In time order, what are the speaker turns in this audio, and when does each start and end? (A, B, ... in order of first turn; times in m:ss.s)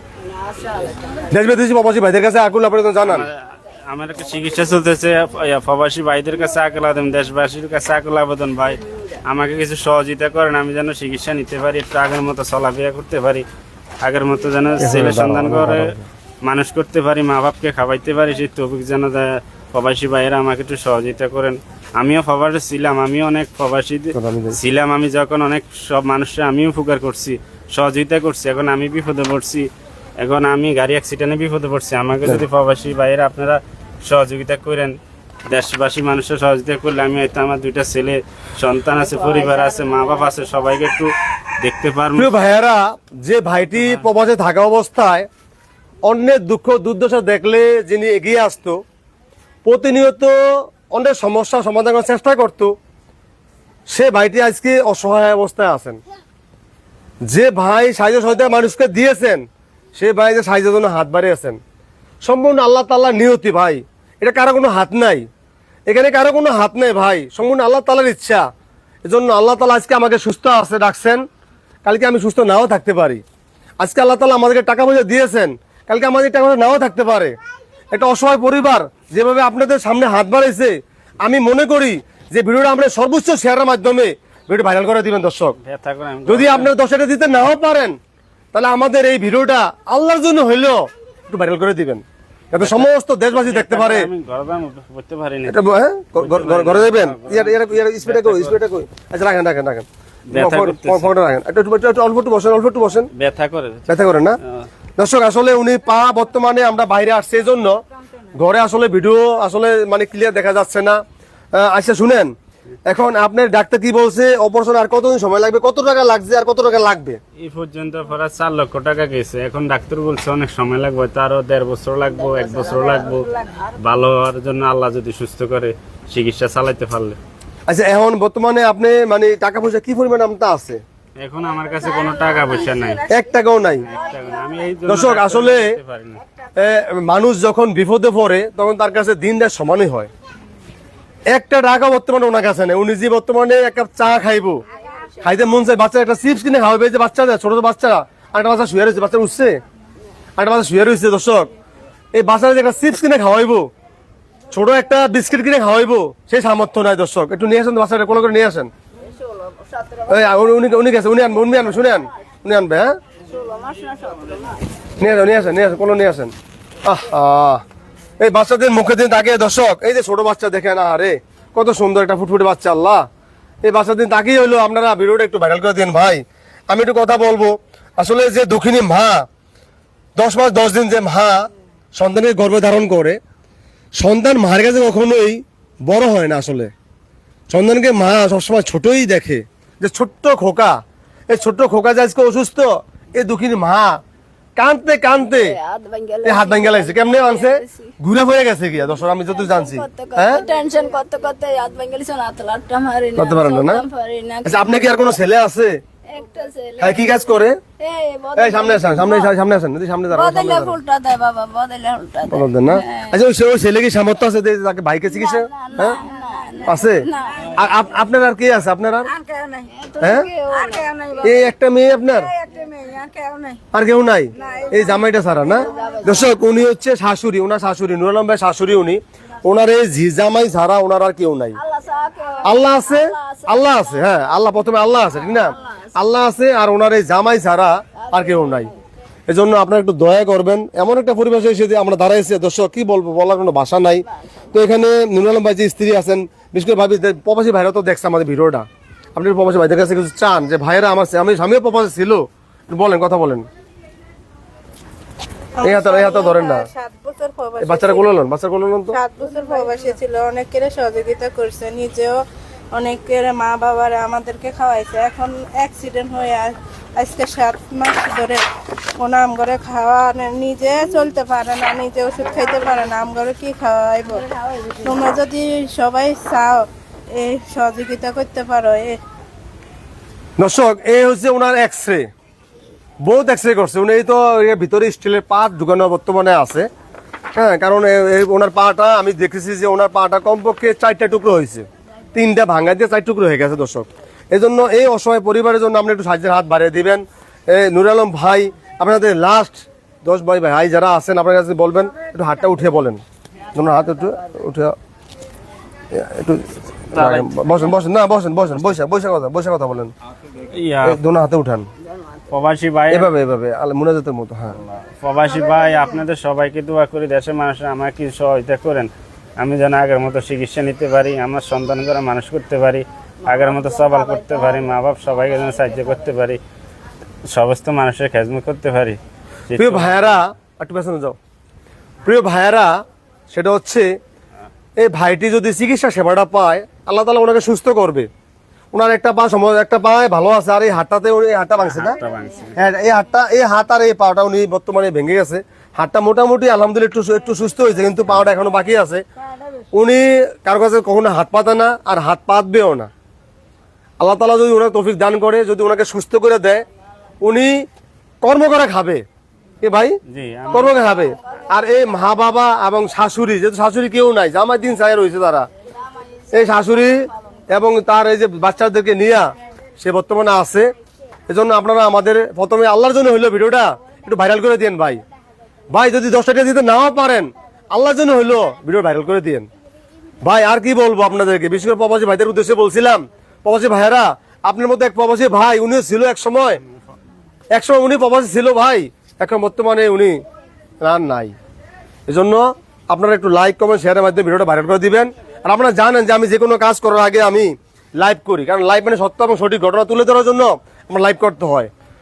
0:00.3-0:01.2 A
0:01.3-0:03.3 B
0:03.0-0:03.4 C
0:03.9-0:13.5 C
0:14.0-0:15.9 C
0:14.8-0:16.1 B
0:16.4-0:42.3 C
0:24.1-0:24.6 B
0:39.0-0:40.1 A
0:42.2-0:45.3 B
0:43.8-0:44.0 C
0:46.0-0:48.8 B
0:49.6-0:52.7 B
0:53.9-0:56.0 B
0:57.3-0:59.4 B
1:00.0-1:01.6 B
1:02.2-1:05.3 B
1:05.9-1:08.5 B
1:09.0-1:11.2 B
1:11.8-1:13.2 B
1:13.8-1:17.4 B
1:17.9-1:25.6 B
1:25.6-1:26.7 C
1:26.3-1:28.0 B
1:28.5-1:34.1 B
1:32.6-1:35.6 C
1:35.5-1:43.1 B
1:36.2-1:38.6 C
1:40.3-1:41.1 C
1:43.2-1:44.7 C
1:43.9-1:44.4 B
1:45.0-1:47.8 B
1:48.4-1:51.0 B
1:51.6-1:52.3 B
1:52.9-1:57.2 B
1:57.4-2:03.3 C
2:02.3-2:03.1 A
2:03.1-2:03.6 D
2:03.8-2:07.2 C
2:07.7-2:10.8 B
2:11.2-2:13.1 C
2:12.0-2:12.9 D
2:13.1-2:13.9 B
2:13.8-2:16.2 C
2:14.0-2:14.5 A
2:14.9-2:15.7 B
2:16.6-2:20.1 B
2:21.3-2:24.6 B
2:25.2-2:29.6 B
2:30.4-2:31.5 B
2:32.2-2:33.7 B
2:34.5-2:38.7 B
2:39.0-2:40.6 A
2:40.1-2:42.9 B
2:43.3-2:44.6 A
2:45.0-2:46.3 B
2:46.8-2:47.6 B
2:48.2-2:53.0 B
2:53.6-2:59.3 B
3:00.2-3:03.2 B
3:04.0-3:06.7 B
3:07.5-3:10.8 B
3:11.3-3:14.0 B
3:14.6-3:15.6 B
3:15.2-3:17.9 A
3:16.2-3:20.4 B
3:19.3-3:25.2 A
3:23.2-3:23.8 B
3:24.4-3:25.8 B
3:26.1-3:27.1 A
3:26.8-3:27.6 B
3:27.8-3:29.3 A
3:28.4-3:30.8 B
3:30.1-3:33.1 A
3:32.3-3:36.0 B
3:35.1-3:37.6 A
3:36.6-3:39.1 B
3:39.0-3:39.7 D
3:39.8-3:41.3 A
3:40.0-3:40.3 B
3:40.5-3:41.5 D
3:41.2-3:42.3 B
3:42.0-3:43.6 D
3:43.7-3:51.6 B
3:44.4-3:46.1 D
3:45.5-3:46.4 A
3:51.6-3:54.1 A
3:52.4-3:58.7 B
3:55.3-3:55.9 A
3:58.0-3:58.8 A
3:59.3-4:13.5 B
4:15.6-4:18.1 E
4:15.6-4:16.7 B
4:17.6-4:19.0 B
4:18.9-4:22.2 E
4:22.7-4:28.4 E
4:29.0-4:34.2 E
4:34.3-4:35.0 A
4:34.8-4:39.0 E
4:40.4-4:42.1 B
4:43.0-4:46.7 B
4:47.4-5:03.0 B
5:03.6-5:04.8 B
5:05.9-5:09.9 B
5:06.9-5:07.3 C
5:10.5-5:11.0 C
5:10.8-5:11.7 B
5:12.3-5:13.1 C
5:12.9-5:14.6 B
5:15.0-5:26.4 C
5:23.3-5:24.7 A
5:27.3-5:29.0 C
5:29.5-5:30.2 C
5:29.6-5:31.2 B
5:32.0-5:32.8 B
5:33.3-5:33.9 B
5:34.8-5:38.1 B
5:38.7-5:42.0 B
5:41.6-5:42.6 C
5:42.6-5:49.0 B
5:49.7-5:52.9 B
5:54.0-5:56.6 B
5:57.2-5:57.7 B
5:58.2-5:59.0 B
5:59.6-6:00.0 B
6:00.1-6:00.8 C
6:00.5-6:05.5 B
6:00.6-6:01.4 A
6:05.9-6:07.1 A
6:06.3-6:10.7 B
6:11.3-6:15.0 B
6:15.7-6:19.5 B
6:20.2-6:26.6 B
6:27.5-6:30.2 B
6:30.8-6:31.3 B
6:32.1-6:41.7 B